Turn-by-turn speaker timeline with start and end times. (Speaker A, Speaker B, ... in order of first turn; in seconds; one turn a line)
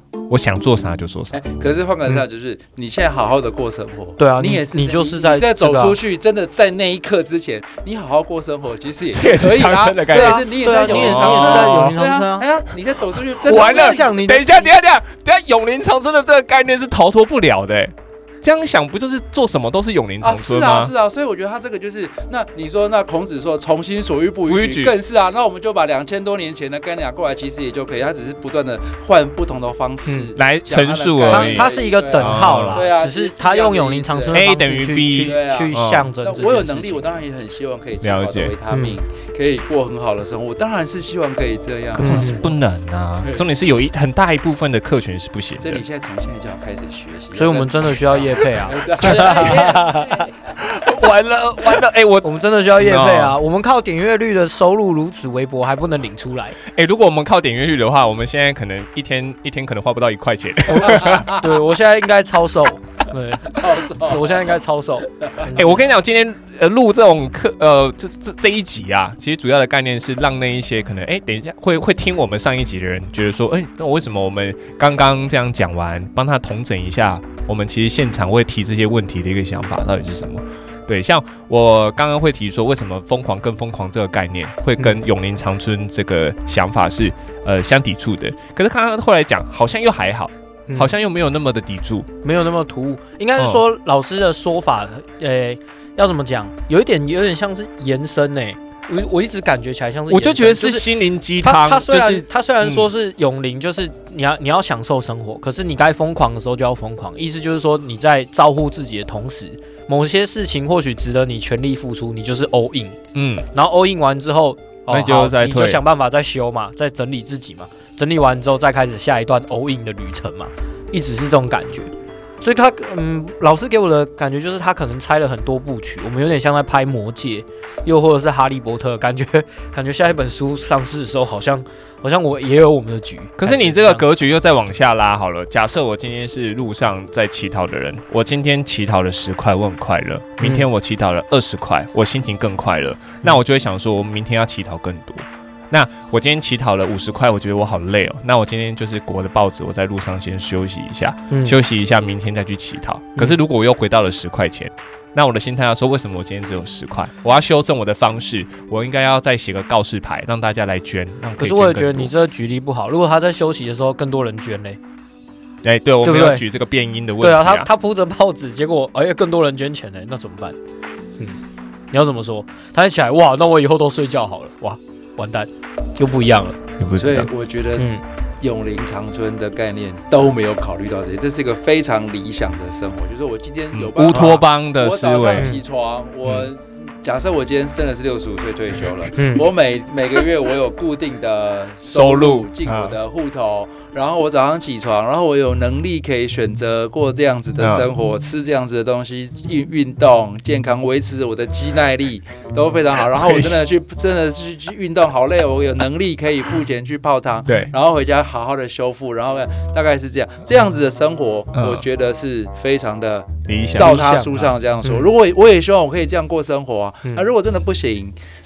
Speaker A: 0.3-1.4
Speaker B: 1.3-14.3
Speaker C: 4.2-6.0
Speaker A: 9.1-12.0
Speaker C: 10.1-12.5
Speaker A: 13.4-20.9
Speaker C: 13.5-14.7
Speaker B: 20.2-34.5
Speaker A: 24.5-24.9
Speaker C: 30.1-30.3
Speaker A: 30.4-32.9
Speaker C: 31.3-37.2
Speaker A: 34.3-36.1
Speaker B: 35.2-42.5
Speaker A: 38.0-38.5
Speaker C: 38.7-39.0
Speaker A: 42.0-45.8
Speaker C: 42.0-42.5
Speaker B: 43.2-43.5
Speaker B: 45.6-50.5
Speaker C: 47.4-50.2
Speaker A: 49.3-49.6
Speaker A: 50.6-53.4
Speaker C: 52.2-56.6
Speaker A: 56.7-61.4
Speaker C: 60.7-65.8
Speaker B: 61.0-61.4
Speaker B: 63.5-64.5
Speaker A: 65.5-92.1
Speaker C: 90.7-90.9
Speaker C: 92.2-113.0
Speaker A: 93.4-93.6
Speaker A: 100.1-102.9
Speaker A: 113.1-113.5
Speaker C: 113.5-134.1
Speaker A: 114.9-115.8
Speaker A: 133.4-162.1
Speaker C: 140.4-140.7
Speaker C: 151.3-151.6
Speaker C: 161.4-164.8
Speaker A: 165.6-167.7
Speaker C: 166.0-166.4
Speaker C: 167.2-170.6
Speaker C: 171.9-176.6
Speaker A: 176.8-177.3
Speaker B: 176.9-218.2
Speaker C: 177.8-178.0
Speaker A: 183.7-185.5
Speaker C: 184.1-184.4
Speaker C: 189.2-189.4
Speaker A: 191.9-193.0
Speaker A: 197.6-197.9
Speaker A: 203.1-203.6
Speaker A: 211.6-211.8
Speaker A: 213.5-214.0
Speaker C: 213.8-215.1